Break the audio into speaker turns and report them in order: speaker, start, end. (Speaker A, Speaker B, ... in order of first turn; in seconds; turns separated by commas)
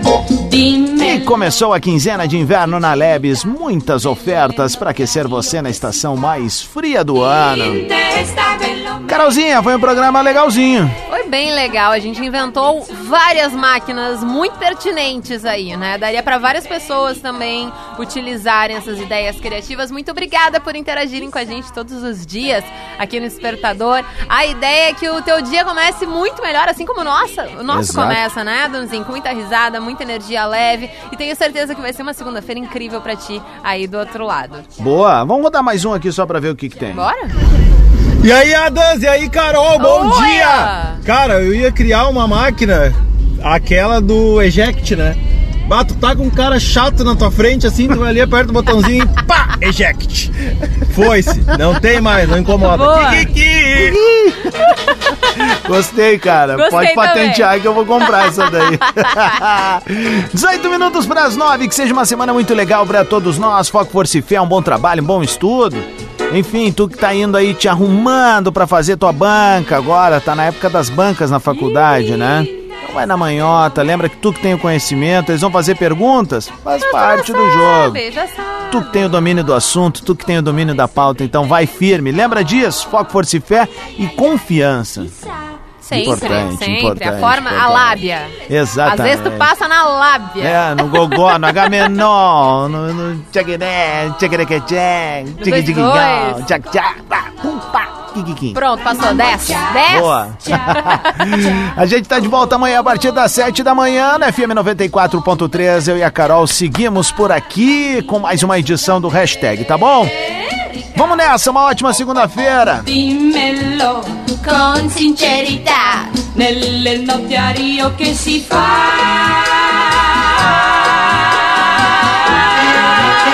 Speaker A: 0.4-1.2, Speaker B: 0.9-7.9, Speaker A: 7.7-9.0, Speaker B: 9.1-10.9, Speaker C: 11.1-34.6, Speaker B: 27.7-28.2, Speaker B: 34.8-37.1, Speaker C: 36.9-37.4, Speaker D: 38.2-50.3, Speaker C: 39.8-41.0, Speaker D: 50.9-54.0, Speaker C: 52.7-53.3, Speaker B: 53.8-54.5, Speaker B: 55.4-78.0, Speaker C: 56.5-57.5, Speaker C: 58.1-59.2, Speaker C: 76.8-79.2, Speaker B: 78.7-85.2, Speaker C: 85.8-91.1, Speaker B: 85.9-89.5, Speaker B: 90.4-98.6, Speaker C: 95.4-96.4, Speaker C: 98.5-100.8, Speaker B: 99.9-110.1, Speaker B: 111.0-112.9, Speaker A: 112.8-119.6